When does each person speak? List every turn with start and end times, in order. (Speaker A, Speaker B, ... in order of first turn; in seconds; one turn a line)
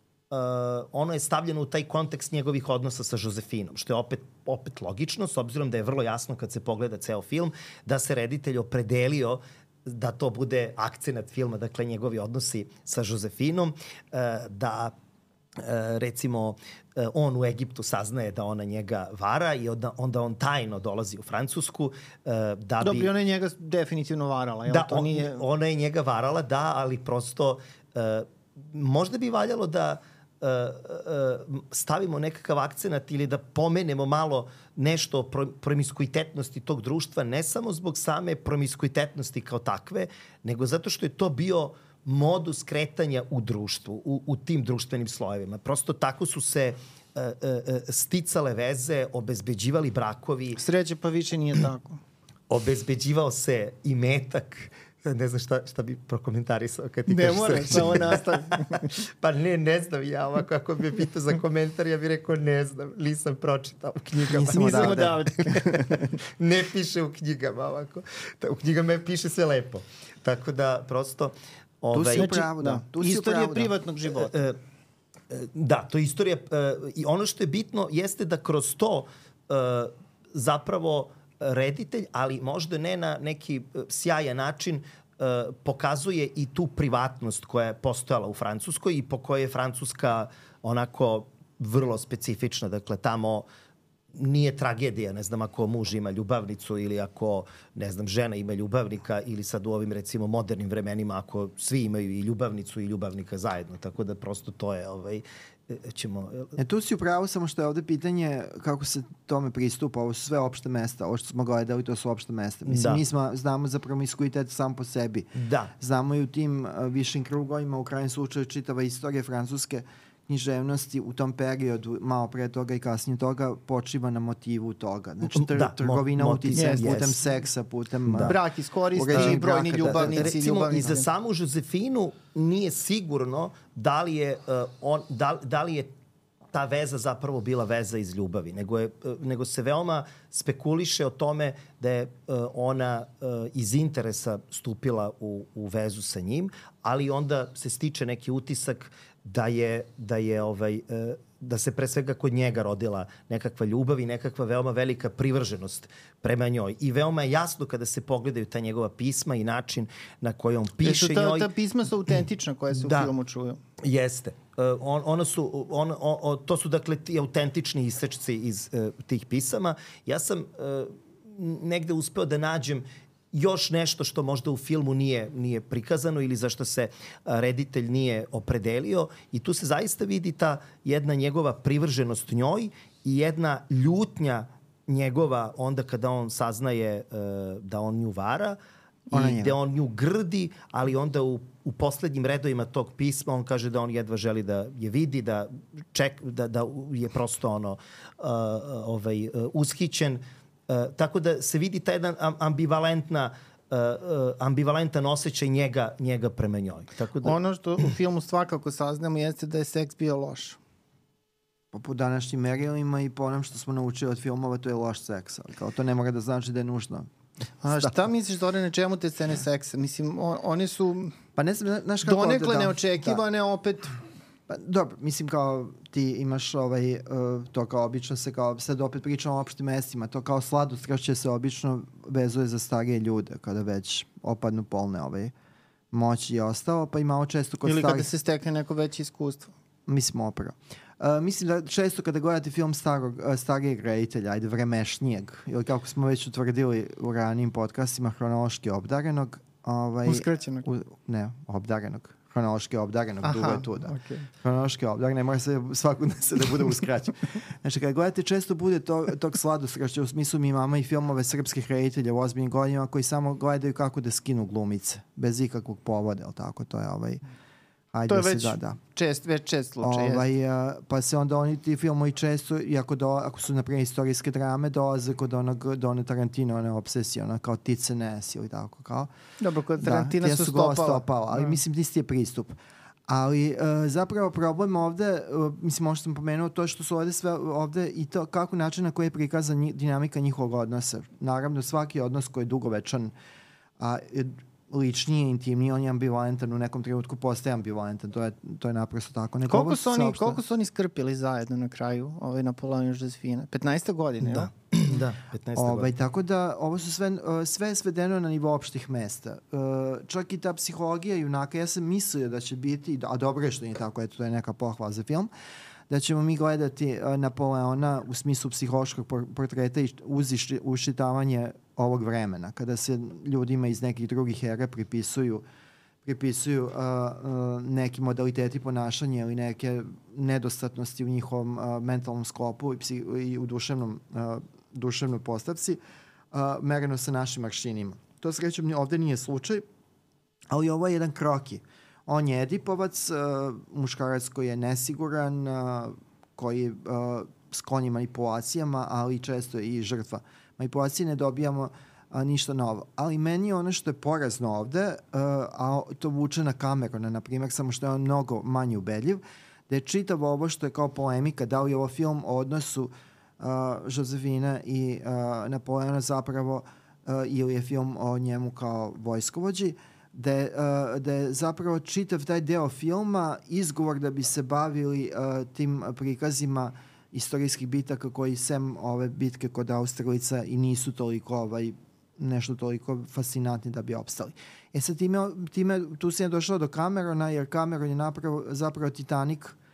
Speaker A: 0.3-14.9
Speaker A: 15.6-23.1
Speaker B: 22.8-25.4
Speaker A: 24.7-50.6
Speaker B: 50.6-52.0
Speaker A: 52.5-72.3
Speaker B: 57.1-58.9
Speaker C: 64.3-65.2
Speaker B: 64.4-66.1
Speaker C: 71.9-73.7
Speaker B: 72.1-74.3
Speaker A: 74.2-74.6
Speaker A: 75.3-93.5
Speaker A: 94.1-106.6
Speaker C: 106.6-115.3
Speaker A: 112.7-113.0
Speaker A: 115.4-115.7
Speaker C: 115.8-128.4
Speaker A: 125.2-127.2
Speaker B: 126.5-127.0
Speaker A: 128.1-128.3
Speaker B: 128.2-131.1
Speaker C: 128.9-130.4
Speaker A: 129.1-135.9
Speaker A: 136.5-161.5
Speaker B: 160.8-163.6
Speaker A: 162.7-163.1
Speaker A: 163.8-188.6
Speaker A: 189.1-207.4
Speaker C: 189.1-189.6
Speaker B: 207.2-210.6
Speaker C: 211.7-217.1
Speaker B: 217.6-221.2
Speaker C: 217.7-218.0
Speaker C: 221.4-223.2
Speaker B: 222.1-224.0
Speaker C: 224.5-235.3
Speaker C: 235.9-238.1
Speaker B: 237.6-239.5
Speaker C: 239.9-267.2
Speaker B: 250.1-250.7
Speaker B: 253.2-254.3
Speaker C: 267.9-268.8
Speaker B: 268.1-270.3
Speaker C: 269.8-279.1
Speaker B: 279.4-281.6
Speaker C: 279.8-282.6
Speaker C: 283.1-293.1
Speaker C: 293.8-300.4
Speaker B: 299.5-304.5
Speaker A: 304.2-305.9
Speaker C: 305.6-315.3
Speaker C: 315.9-325.4
Speaker C: 326.1-335.8
Speaker C: 336.3-339.6
Speaker C: 340.5-389.6